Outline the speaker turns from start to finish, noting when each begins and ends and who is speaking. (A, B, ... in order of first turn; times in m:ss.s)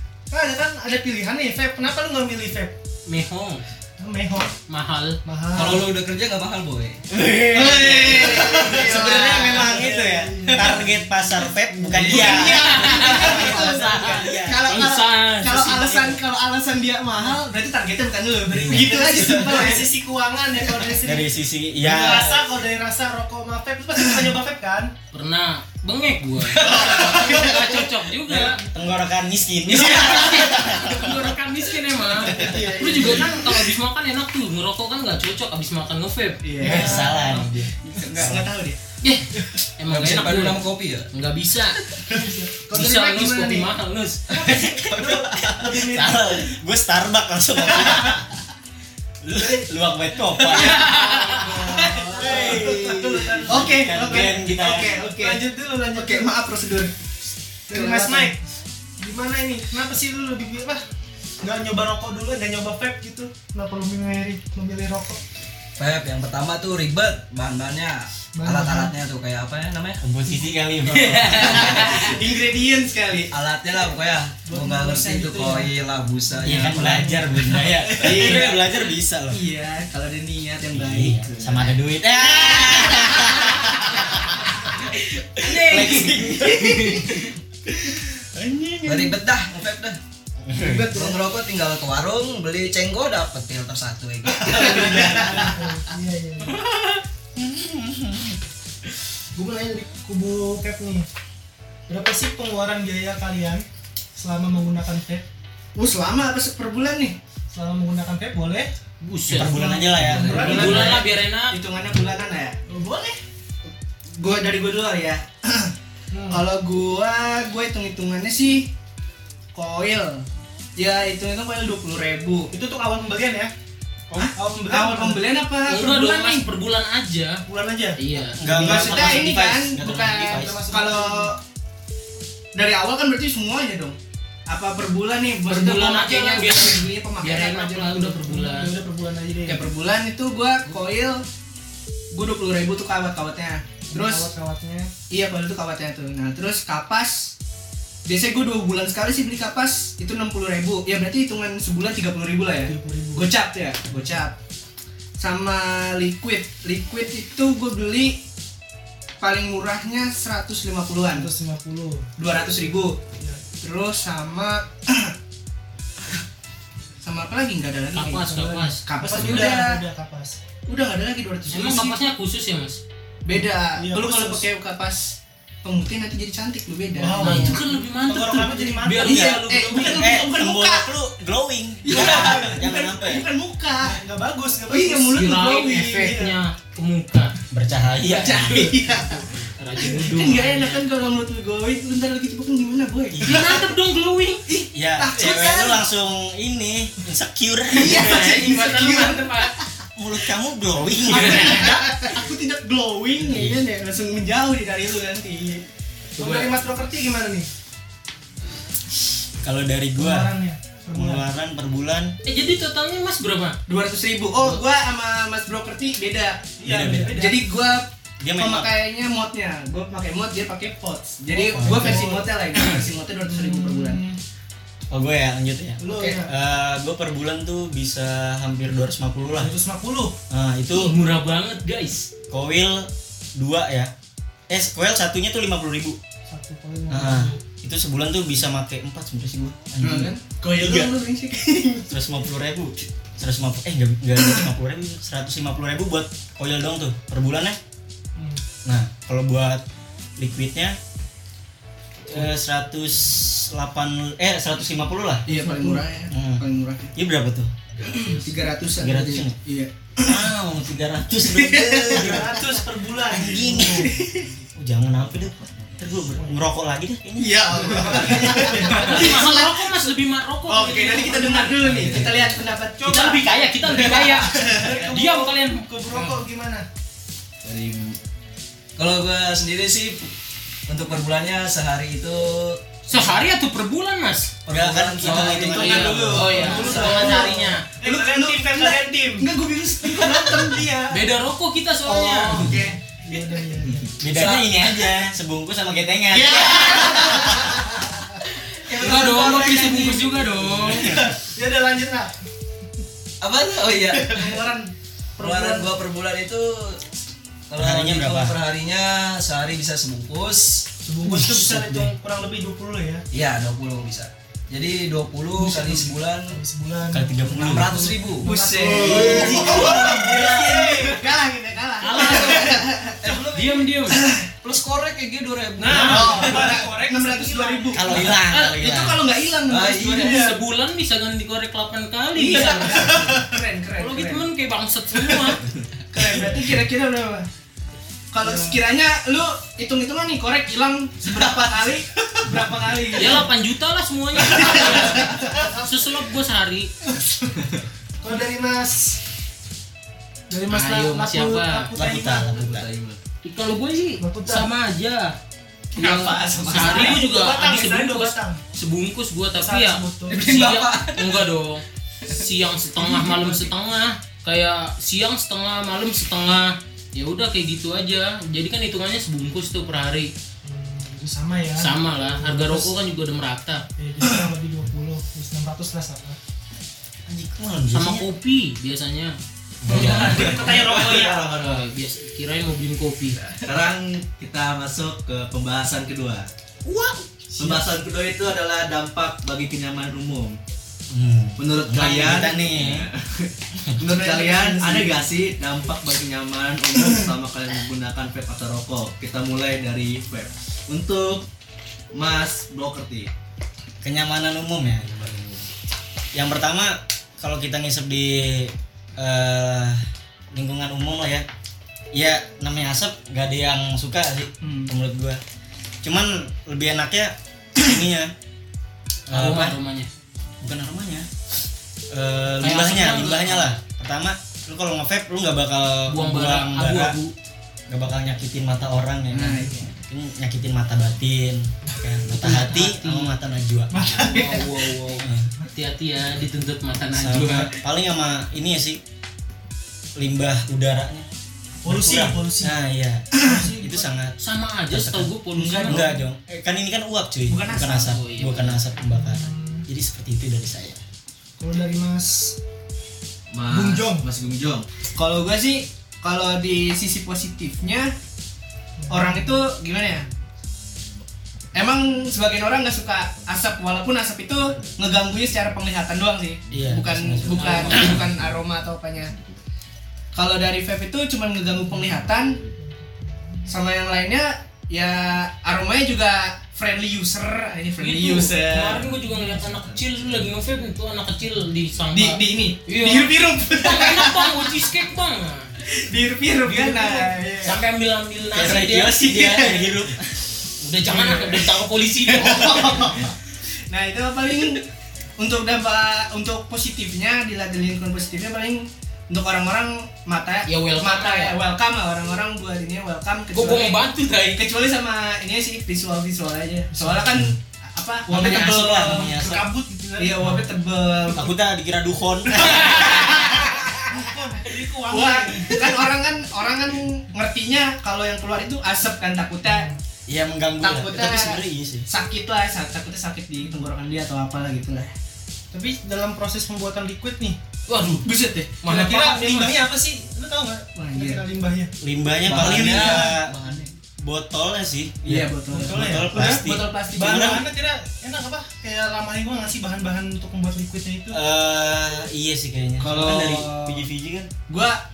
0:00.3-0:02.8 A
0:03.1-0:03.6 B
0:04.0-0:04.5 A
0:04.7-0:05.8 B
0:05.2-0:05.8 A
0:05.5-0:07.0 C
0:07.1-0:14.7 D
0:07.5-0:09.8 E
0:08.5-0:14.1 A
0:12.0-0:19.9 E
0:12.4-0:13.5 B
0:14.7-0:15.8 B
0:18.5-0:19.6 D
0:18.5-0:24.9 A
0:21.0-0:22.5 D
0:25.1-0:28.6 B
0:26.6-0:27.5 E
0:26.6-0:27.7 A
0:28.4-0:31.3 D
0:29.7-0:30.8 E
0:29.8-0:36.4 B
0:32.2-0:33.2 D
0:32.3-0:33.5 A
0:36.4-0:37.4 E
0:36.6-0:37.5 A
0:36.6-0:38.4 D
0:37.9-0:38.4 C
0:38.0-0:38.8 E
0:39.0-0:41.8 B
0:39.9-0:41.1 C
0:42.0-0:43.6 A
0:42.7-0:44.4 B
0:42.7-0:43.1 E
0:44.3-0:46.5 A
0:44.4-0:48.2 D
0:49.2-0:54.9 D
0:50.5-0:51.6 B
0:50.6-0:55.4 E
0:51.4-0:54.0 A
0:55.0-0:56.4 A
0:55.9-0:56.9 E
0:57.7-0:58.4 A
0:57.7-0:58.3 E
0:59.0-1:00.8 A
1:01.4-1:05.2 A
1:05.8-1:10.0 C
1:08.4-1:08.9 A
1:10.0-1:11.9 D
1:11.2-1:13.3 E
1:13.3-1:17.1 C
1:14.5-1:15.7 A
1:16.4-1:19.4 D
1:16.5-1:17.9 A
1:17.9-1:18.6 E
1:18.0-1:18.8 B
1:19.3-1:24.3 E
1:20.7-1:29.2 D
1:25.4-1:27.1 B
1:28.8-1:30.0 C
1:30.4-1:31.0 D
1:30.6-1:31.2 A
1:30.9-1:35.5 C
1:34.4-1:35.3 E
1:34.5-1:36.6 A
1:36.5-1:38.4 D
1:39.4-1:41.1 A
1:41.9-1:43.6 A
1:44.2-1:45.2 A
1:45.8-1:47.2 E
1:47.5-1:48.7 A
1:49.0-1:49.6 B
1:49.3-1:51.0 D
1:49.5-1:51.0 A
1:49.6-1:52.6 E
1:50.0-1:50.5 C
1:50.2-1:51.6 B
1:52.7-1:53.2 A
1:54.2-1:55.7 E
1:56.1-1:56.4 A
1:56.3-1:58.7 E
1:59.6-2:00.2 E
2:00.8-2:02.5 E
2:02.5-2:03.5 A
2:04.2-2:06.5 E
2:04.3-2:05.2 A
2:05.7-2:07.4 B
2:07.5-2:08.0 A
2:08.0-2:09.3 B
2:08.4-2:10.7 D
2:08.5-2:11.4 E
2:10.3-2:11.3 A
2:12.6-2:14.0 E
2:14.5-2:18.2 E
2:15.5-2:18.7 B
2:18.2-2:19.6 A
2:19.5-2:21.2 E
2:22.1-2:24.3 E
2:23.9-2:24.9 A
2:25.1-2:27.4 E
2:28.1-2:34.4 E
2:32.7-2:33.3 A
2:35.2-2:38.2 E
2:39.2-2:41.3 E
2:41.2-2:42.1 A
2:42.2-2:43.0 E
2:43.2-2:43.4 A
2:43.6-2:45.1 E
2:47.0-2:49.8 E
2:48.0-2:48.8 B
2:48.3-2:50.4 A
2:50.7-2:52.0 E
2:51.5-2:52.8 B
2:53.2-2:57.6 E
2:53.8-2:54.4 A
2:57.0-3:00.2 A
2:57.2-3:00.1 B
2:59.0-2:59.4 D
2:59.5-3:00.9 E
2:59.9-3:03.3 D
3:01.8-3:04.0 E
3:03.8-3:05.3 A
3:04.7-3:06.2 E
3:05.2-3:07.3 B
3:06.0-3:06.3 A
3:07.5-3:08.7 D
3:08.1-3:13.5 E
3:08.2-3:10.9 B
3:13.1-3:13.6 D
3:13.3-3:14.4 B
3:14.5-3:15.8 E
3:14.7-3:18.2 D
3:17.7-3:19.7 E
3:17.8-3:19.5 B
3:20.0-3:21.7 D
3:21.1-3:25.6 E
3:21.1-3:21.7 B
3:23.2-3:23.6 D
3:26.2-3:26.5 B
3:26.2-3:27.5 A
3:29.4-3:30.3 D
3:30.0-3:31.2 A
3:30.9-3:32.1 D
3:32.2-3:33.6 B
3:33.7-3:36.6 E
3:36.6-3:37.4 A
3:36.6-3:37.1 D
3:37.1-3:44.0 E
3:38.2-3:38.7 D
3:41.3-3:42.3 A
3:41.5-3:42.1 D
3:43.3-3:44.2 A
3:44.9-3:49.5 D
3:45.8-3:46.3 A
3:49.4-3:50.2 A
3:50.3-3:50.9 D
3:50.7-3:52.1 B
3:52.3-3:53.9 D
3:54.5-3:56.0 D
3:56.3-3:57.4 A
3:56.9-4:00.9 D
3:59.8-4:01.9 E
4:01.9-4:07.6 D
4:08.2-4:08.4 A
4:08.6-4:09.6 D
4:10.2-4:10.8 D
4:12.1-4:15.2 D
4:15.3-4:15.8 A
4:15.3-4:16.9 E
4:16.1-4:16.4 D
4:17.0-4:17.5 D
4:17.8-4:18.4 F
4:17.9-4:20.2 E
4:18.8-4:19.4 D
4:20.0-4:24.0 D
4:21.2-4:22.2 E
4:21.9-4:23.9 A
4:23.7-4:24.3 E
4:24.6-4:28.6 D
4:26.2-4:26.4 A
4:27.2-4:29.9 E
4:28.2-4:29.2 A
4:28.7-4:31.4 B
4:30.5-4:34.7 E
4:30.7-4:31.5 A
4:31.6-4:32.3 D
4:31.6-4:32.3 F
4:32.8-4:36.7 A
4:32.8-4:35.6 B
4:37.4-4:38.0 C
4:38.8-4:40.1 C
4:40.7-4:42.7 C
4:42.9-4:44.3 B
4:44.5-4:46.4 C
4:44.5-4:46.2 D
4:45.0-4:50.7 E
4:45.2-4:47.6 B
4:46.2-4:49.3 A
4:49.9-4:51.0 A
4:50.9-4:52.5 B
4:51.9-4:53.9 A
4:52.3-4:52.8 E
4:54.0-4:57.5 D
4:54.1-4:54.5 C
4:56.1-4:57.7 E
4:58.6-5:00.9 C
4:58.8-5:00.9 B
5:00.7-5:01.0 D
5:01.2-5:02.2 A
5:03.2-5:04.4 C
5:04.0-5:05.7 A
5:05.2-5:06.9 C
5:07.5-5:10.7 C
5:07.6-5:08.4 D
5:10.8-5:13.0 A
5:11.0-5:11.9 D
5:13.1-5:16.4 C
5:15.4-5:20.9 A
5:16.9-5:17.8 D
5:17.4-5:20.9 C
5:18.2-5:23.0 E
5:19.2-5:20.0 D
5:21.8-5:22.6 B
5:21.9-5:23.7 A
5:23.0-5:23.3 C
5:23.3-5:24.0 B
5:23.9-5:24.2 E
5:24.4-5:26.6 C
5:25.6-5:28.0 A
5:25.7-5:30.3 E
5:27.7-5:29.0 D
5:29.5-5:30.3 C
5:29.9-5:33.1 B
5:30.0-5:30.3 A
5:32.2-5:34.2 E
5:32.3-5:33.2 A
5:33.8-5:35.4 B
5:35.9-5:37.2 E
5:38.1-5:43.3 E
5:38.2-5:38.6 A
5:42.4-5:42.9 F
5:43.0-5:46.7 B
5:44.3-5:44.9 E
5:44.5-5:45.6 A
5:46.9-5:47.4 A
5:48.0-5:49.0 A
5:50.3-5:52.4 A
5:50.5-5:51.7 B
5:51.8-5:52.6 D
5:52.3-5:53.0 F
5:53.2-5:55.2 B
5:54.0-5:54.5 A
5:55.7-5:57.0 E
5:56.4-6:10.1 B
5:56.4-5:58.4 A
5:59.4-6:00.3 A
6:00.1-6:01.2 C
6:02.8-6:03.5 A
6:10.4-6:12.7 A
6:11.6-6:13.6 B
6:13.8-6:16.2 A
6:17.1-6:18.0 D
6:17.7-6:19.2 B
6:19.6-6:21.2 D
6:19.7-6:21.4 A
6:19.7-6:21.7 F
6:19.9-6:20.3 B
6:21.2-6:23.2 B
6:23.2-6:26.3 F
6:26.6-6:27.1 D
6:27.4-6:30.4 F
6:30.9-6:32.9 D
6:31.4-6:41.3 F
6:33.8-6:35.1 E
6:41.9-6:43.1 F
6:43.8-6:44.9 D
6:44.8-6:45.5 F
6:46.1-6:51.2 D
6:51.9-6:55.2 D
6:54.4-6:54.7 E
6:55.8-6:58.1 D
6:59.1-6:59.9 B
6:59.1-6:59.6 D
7:00.4-7:01.1 D
7:01.9-7:07.0 D
7:02.4-7:03.6 B
7:05.9-7:07.1 B
7:07.7-7:14.1 D
7:09.1-7:09.7 E
7:12.2-7:13.1 B
7:13.7-7:14.6 A
7:14.0-7:15.0 C
7:14.9-7:15.3 D
7:15.5-7:17.5 B
7:17.0-7:18.8 D
7:20.0-7:21.1 D
7:21.6-7:22.6 A
7:21.7-7:24.2 D
7:23.2-7:23.9 A
7:24.2-7:25.9 B
7:24.7-7:25.1 D
7:25.4-7:25.8 E
7:25.6-7:30.8 D
7:27.3-7:28.0 E
7:27.9-7:28.6 B
7:28.9-7:29.6 A
7:31.4-7:32.4 A
7:33.3-7:34.6 F
7:33.5-7:34.0 A
7:35.0-7:37.9 E
7:38.8-7:39.3 A
7:38.9-7:40.1 E
7:41.5-7:49.1 E
7:46.5-7:48.1 D
7:47.1-7:48.2 F
7:47.3-7:48.0 B
7:50.1-7:52.4 E
7:52.5-7:53.5 A
7:53.5-7:58.8 E
7:57.8-8:05.5 B
7:59.2-8:00.4 F
8:01.9-8:04.7 E
8:05.7-8:07.6 E
8:06.5-8:07.5 A
8:07.4-8:09.0 B
8:08.3-8:10.1 D
8:08.9-8:09.7 E
8:10.6-8:12.9 B
8:10.9-8:11.5 E
8:12.1-8:13.1 E
8:13.7-8:14.7 E
8:15.2-8:23.8 E
8:20.5-8:21.3 B
8:23.3-8:24.4 B
8:24.3-8:29.1 E
8:26.7-8:27.2 A
8:28.1-8:29.4 D
8:28.1-8:30.5 A
8:30.0-8:31.3 E
8:31.1-8:33.3 D
8:32.4-8:34.0 E
8:33.8-8:35.7 A
8:34.9-8:39.7 E
8:39.4-8:39.8 A
8:40.1-8:41.8 D
8:40.6-8:44.9 E
8:45.5-8:47.4 A
8:47.7-8:48.1 B
8:48.0-8:48.5 E
8:48.6-8:49.6 B
8:48.7-8:51.7 A
8:50.8-8:51.2 E
8:51.8-8:53.3 D
8:52.2-8:53.7 C
8:54.0-8:57.4 D
8:55.0-8:57.4 E
8:55.5-8:56.4 A
8:57.0-9:01.2 A
9:01.1-9:04.3 D
9:02.8-9:03.9 E
9:04.5-9:04.8 E